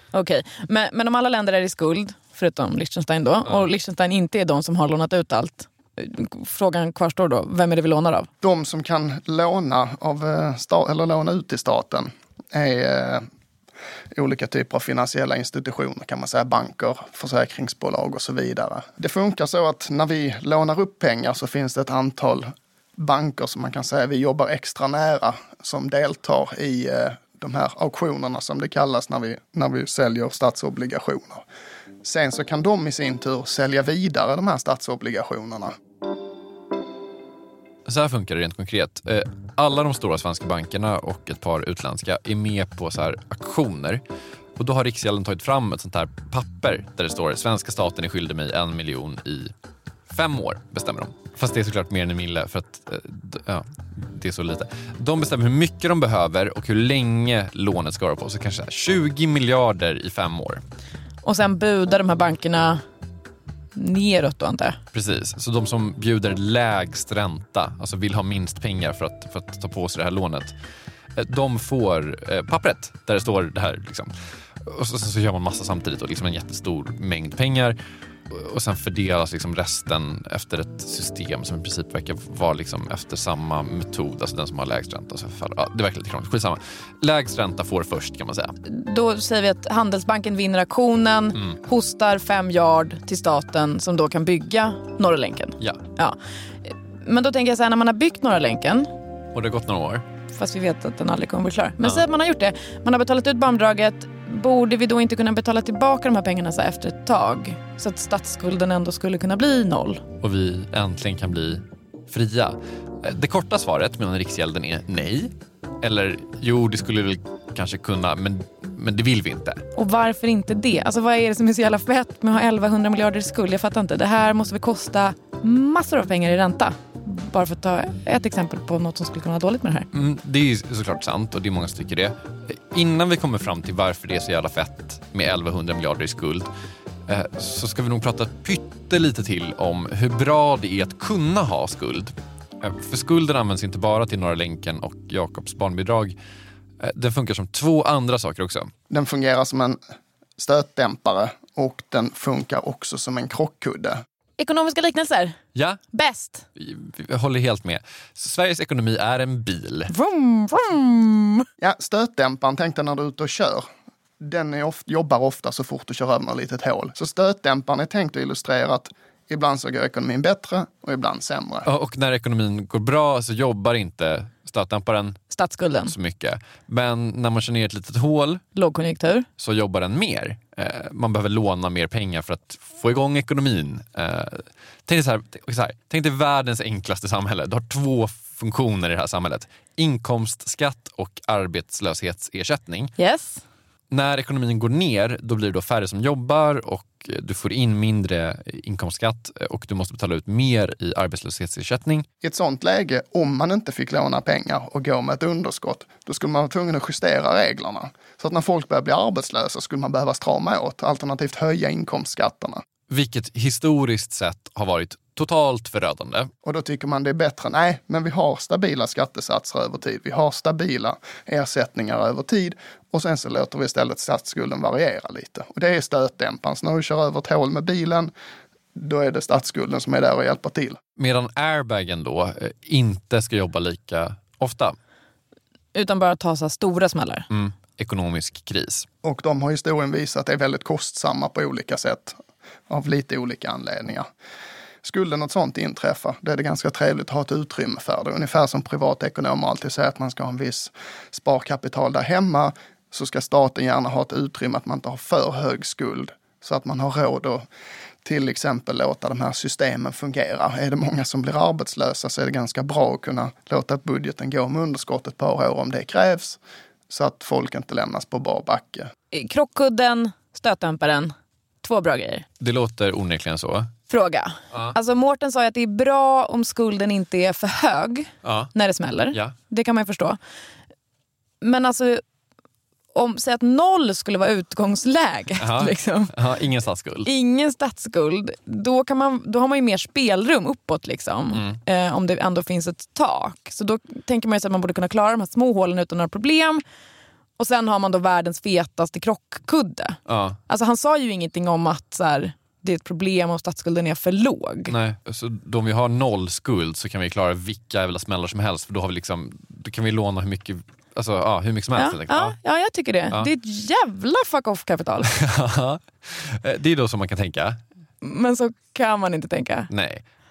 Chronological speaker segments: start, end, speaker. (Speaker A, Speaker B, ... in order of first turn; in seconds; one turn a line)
Speaker A: 0.1-8.3
Speaker B: 8.4-13.2
Speaker B: 14.1-31.4
Speaker B: 32.0-35.7
Speaker C: 37.9-44.0
Speaker C: 44.6-49.5
Speaker C: 50.1-60.6
Speaker A: 61.2-62.8
Speaker A: 63.7-64.8
Speaker C: 64.9-70.5
Speaker C: 71.2-77.8
Speaker C: 78.3-88.5
Speaker A: 88.6-98.9
Speaker C: 99.3-100.0
Speaker A: 100.3-110.0
Speaker C: 110.2-119.6
Speaker A: 119.8-129.9
Speaker C: 129.9-136.5
Speaker C: 137.1-146.2
Speaker C: 146.8-148.7
Speaker B: 148.9-149.8
Speaker B: 150.4-154.0
Speaker A: 154.4-155.4
Speaker C: 155.5-155.8
Speaker A: 155.9-156.4
Speaker C: 156.6-159.9
Speaker A: 159.9-161.5
Speaker B: 161.6-163.7
Speaker B: 164.2-171.7
Speaker C: 171.7-175.2
Speaker A: 175.3-175.9
Speaker C: 175.8-178.4
Speaker A: 178.6-179.3
Speaker C: 179.4-192.9
Speaker A: 193.0-193.4
Speaker C: 193.9-202.1
Speaker B: 202.2-212.6
Speaker C: 212.9-216.3
Speaker B: 216.4-228.1
Speaker B: 228.7-230.8
Speaker C: 231.0-234.8
Speaker A: 235.7-237.3
Speaker C: 237.3-238.8
Speaker B: 239.0-244.1
Speaker B: 244.8-257.4
Speaker B: 258.0-268.9
Speaker A: 269.1-272.2
Speaker C: 272.4-273.7
Speaker A: 273.9-280.2
Speaker C: 278.2-278.5
Speaker A: 281.4-282.0
Speaker A: 282.9-286.1
Speaker C: 285.4-287.1
Speaker A: 287.0-296.6
Speaker C: 291.3-291.6
Speaker A: 297.4-304.7
Speaker C: 300.1-300.4
Speaker C: 304.7-312.3
Speaker A: 311.8-315.1
Speaker C: 315.1-317.6
Speaker A: 318.0-319.7
Speaker C: 319.7-320.0